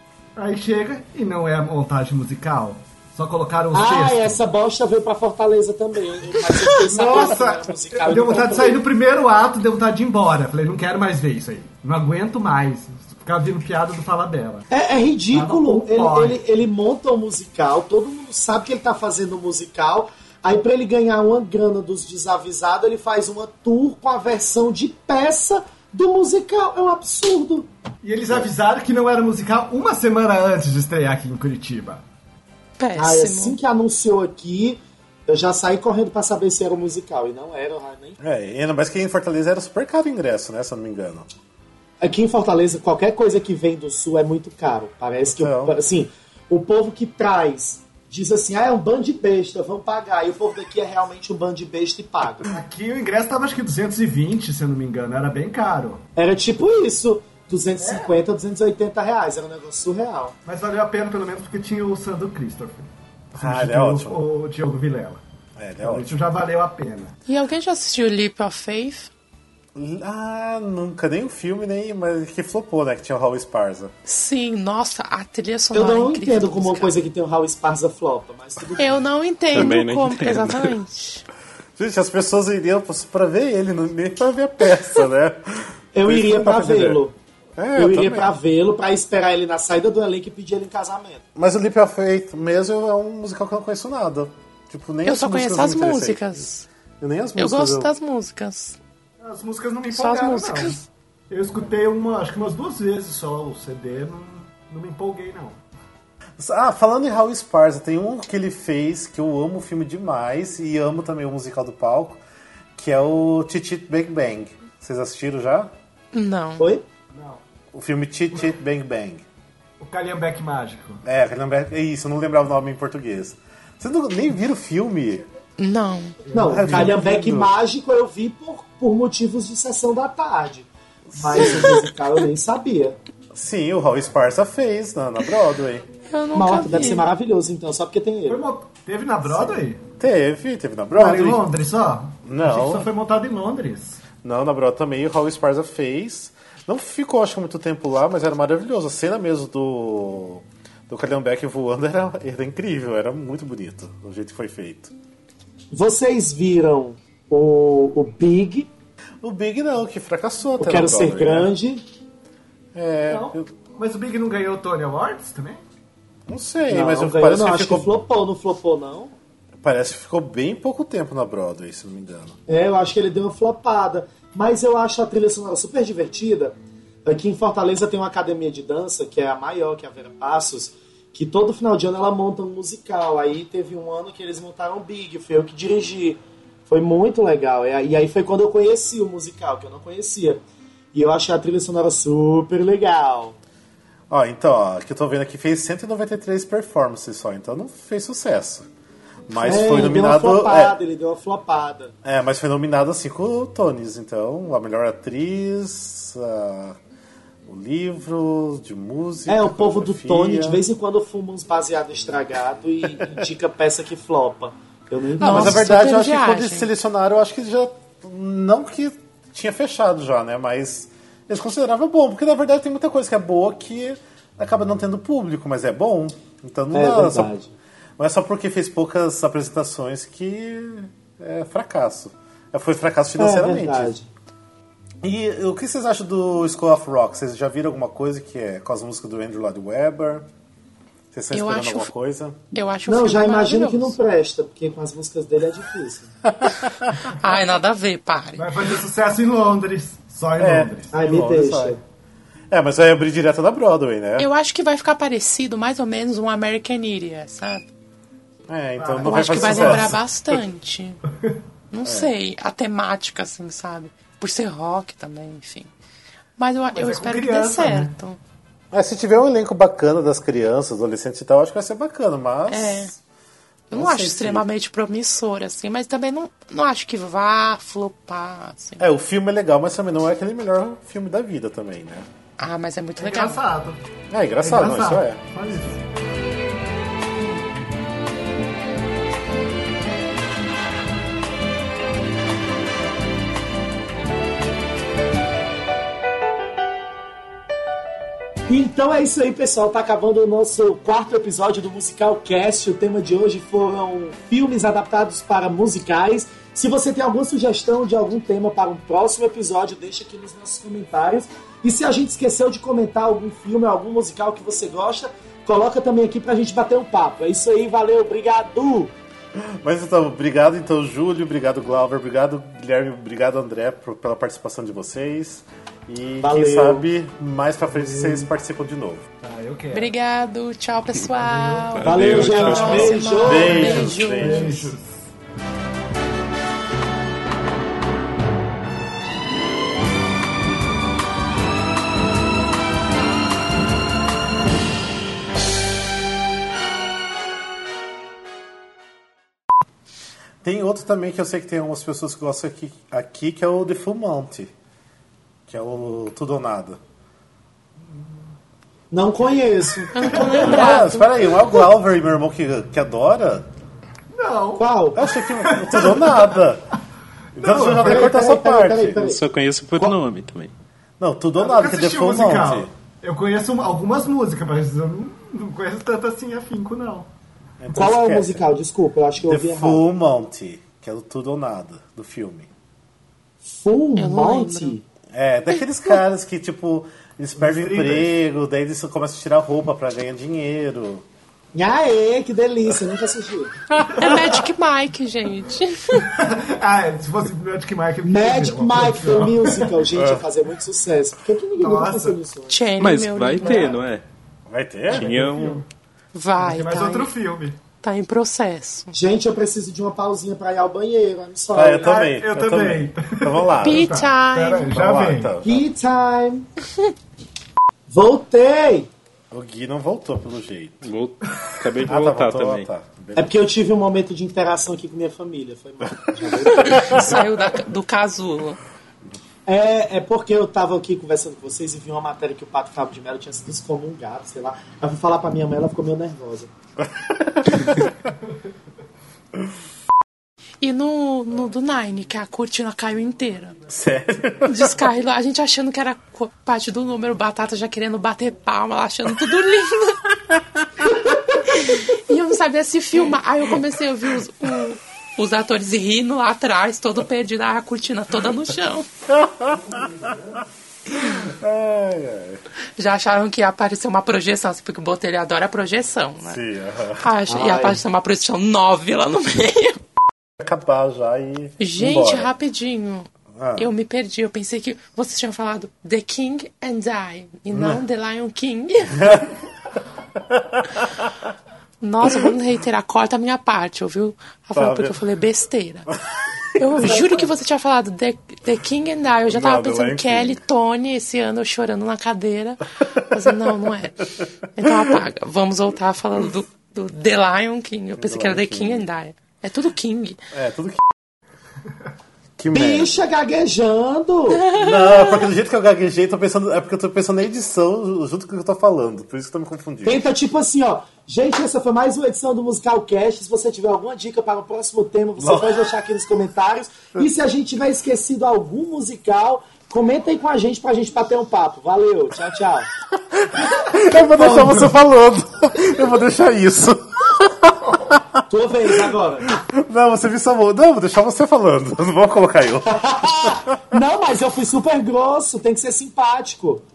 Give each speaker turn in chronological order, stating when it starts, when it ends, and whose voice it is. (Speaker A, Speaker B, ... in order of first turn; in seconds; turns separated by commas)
Speaker A: 0.3-4.4, Speaker B: 3.7-8.8, Speaker A: 6.7-14.7, Speaker B: 14.7-27.7, Speaker A: 15.3-16.4, Speaker A: 28.0-32.0, Speaker C: 32.8-33.6, Speaker B: 33.0-38.2, Speaker D: 38.2-41.3, Speaker B: 42.0-52.5, Speaker D: 45.2-45.8, Speaker A: 52.4-56.0, Speaker B: 56.1-60.3, Speaker A: 57.8-58.2, Speaker A: 60.4-65.2, Speaker D: 63.3-64.2, Speaker D: 65.6-66.1, Speaker A: 65.8-67.1, Speaker C: 67.3-69.1, Speaker D: 69.7-73.9, Speaker C: 74.0-77.0, Speaker B: 75.7-79.0, Speaker C: 78.8-81.2, Speaker E: 79.5-80.7, Speaker D: 81.8-87.0, Speaker B: 85.9-87.1, Speaker D: 87.6-88.3, Speaker B: 87.8-91.2, Speaker D: 91.3-96.4, Speaker C: 95.0-96.7, Speaker D: 97.0-97.9, Speaker C: 97.4-98.8, Speaker A: 99.2-105.6, Speaker C: 99.9-100.8, Speaker D: 106.4-112.2, Speaker D: 112.8-115.7, Speaker C: 116.1-116.7, Speaker B: 116.6-116.8, Speaker A: 117.1-117.4, Speaker D: 117.7-119.2, Speaker A: 119.8-121.0, Speaker D: 121.0-125.2, Speaker C: 125.6-126.2, Speaker A: 126.3-127.1, Speaker B: 126.3-132.9, Speaker D: 126.5-127.5, Speaker D: 131.2-131.6, Speaker D: 133.3-135.8, Speaker C: 136.1-137.1, Speaker B: 136.3-138.4, Speaker A: 138.3-139.8, Speaker D: 139.2-141.4, Speaker A: 140.9-144.0, Speaker D: 142.2-142.9, Speaker D: 144.2-154.9, Speaker B: 155.7-158.7, Speaker D: 159.2-161.5, Speaker B: 160.6-161.8, Speaker D: 162.7-163.5, Speaker A: 163.1-165.6, Speaker D: 166.3-167.9, Speaker B: 166.7-169.1, Speaker D: 169.6-172.4, Speaker B: 172.5-190.4, Speaker B: 190.9-193.4, Speaker D: 194.1-198.7, Speaker D: 199.3-200.8, Speaker B: 199.3-201.9, Speaker D: 202.0-206.8, Speaker D: 207.5-210.6, Speaker B: 209.3-215.6, Speaker C: 215.2-216.7, Speaker D: 215.2-227.3, Speaker B: 226.7-227.5, Speaker D: 228.0-233.9, Speaker B: 233.2-234.1, Speaker D: 235.0-240.3, Speaker D: 241.1-242.4, Speaker C: 241.3-241.9, Speaker C: 242.5-244.0, Speaker B: 242.8-246.1, Speaker D: 246.4-246.9, Speaker C: 247.1-248.5, Speaker A: 248.4-250.9, Speaker D: 250.4-251.8, Speaker B: 250.9-251.8, Speaker D: 252.5-254.3, Speaker C: 254.2-257.7, Speaker D: 258.5-260.0, Speaker A: 258.8-260.0, Speaker C: 259.0-261.0, Speaker C: 261.7-265.7, Speaker D: 261.8-262.1, Speaker C: 266.4-268.2, Speaker A: 266.7-267.9, Speaker D: 268.7-273.0, Speaker C: 272.5-272.9, Speaker D: 273.7-274.4, Speaker C: 273.7-278.9, Speaker D: 278.8-282.1, Speaker C: 282.4-283.4, Speaker A: 283.0-283.8, Speaker D: 284.1-285.3, Speaker A: 284.4-285.8, Speaker B: 298.5-318.9, Speaker D: 319.3-329.1, Speaker B: 326.2-326.9, Speaker A: 327.7-328.3, Speaker A: 329.2-329.9, Speaker C: 329.7-334.7, Speaker A: 331.4-335.1, Speaker E: 331.7-333.0, Speaker B: 331.8-333.9, Speaker D: 333.2-334.7, Speaker D: 350.4-354.5, Speaker D: 355.5-356.8, Speaker B: 358.9-360.6, Speaker C: 359.9-361.1, Speaker A: 360.0-360.4, Speaker D: 360.2-363.5, Speaker A: 364.1-364.7, Speaker B: 364.6-365.1, Speaker D: 364.9-366.6, Speaker A: 365.2-366.3, Speaker A: 367.3-368.1, Speaker D: 367.4-369.0, Speaker B: 367.8-369.2, Speaker E: 369.0-370.5, Speaker D: 371.0-372.7, Speaker A: 371.4-377.1, Speaker D: 377.6-378.4, Speaker B: 377.7-379.8, Speaker D: 379.2-382.5, Speaker B: 383.4-384.8, Speaker C: 384.0-384.8, Speaker D: 385.1-391.0, Speaker A: 387.4-388.1, Speaker B: 391.5-393.6, Speaker C: 393.7-396.2, Speaker A: 393.9-394.2, Speaker A: 395.9-399.7, Speaker B: 398.0-402.7, Speaker D: 399.9-400.2, Speaker A: 401.6-402.2, Speaker C: 402.5-403.7, Speaker E: 402.8-404.0, Speaker A: 403.4-403.7, Speaker D: 404.5-405.3, Speaker E: 404.9-405.6, Speaker A: 404.9-405.6, Speaker C: 406.1-407.1, Speaker A: 406.4-407.6, Speaker C: 407.8-408.9, Speaker B: 408.9-412.1, Speaker D: 411.5-414.0, Speaker A: 411.8-415.4, Speaker C: 413.6-414.7, Speaker D: 414.7-415.6, Speaker B: 415.4-416.5, Speaker B: 417.9-418.9, Speaker D: 419.3-420.9, Speaker E: 420.8-422.7, Speaker D: 421.8-423.3, Speaker B: 423.1-427.2, Speaker D: 426.6-427.0, Speaker C: 426.6-428.6, Speaker B: 429.4-436.5, Speaker D: 436.8-437.9, Speaker C: 440.6-443.6, Speaker D: 443.7-444.9, Speaker C: 444.4-450.1, Speaker C: 451.1-458.9, Speaker D: 459.1-462.4, Speaker C: 462.8-466.4, Speaker D: 466.2-467.1, Speaker C: 467.0-469.8, Speaker B: 467.3-467.8, Speaker D: 470.4-472.3, Speaker C: 471.6-479.3, Speaker D: 473.3-473.7, Speaker D: 477.5-477.8, Speaker D: 479.0-479.3, Speaker D: 480.3-481.1, Speaker C: 481.8-485.9, Speaker D: 484.5-485.0, Speaker C: 486.5-500.2, Speaker D: 486.6-487.1, Speaker D: 489.3-490.4, Speaker D: 498.0-498.9, Speaker D: 500.3-500.9, Speaker D: 502.4-503.0, Speaker B: 502.5-504.5, Speaker D: 504.5-510.0, Speaker C: 504.5-505.3, Speaker B: 509.8-522.7, Speaker D: 515.2-515.5, Speaker D: 523.1-528.2, Speaker B: 523.9-524.7, Speaker B: 528.3-529.4, Speaker D: 528.8-533.4, Speaker B: 532.6-536.6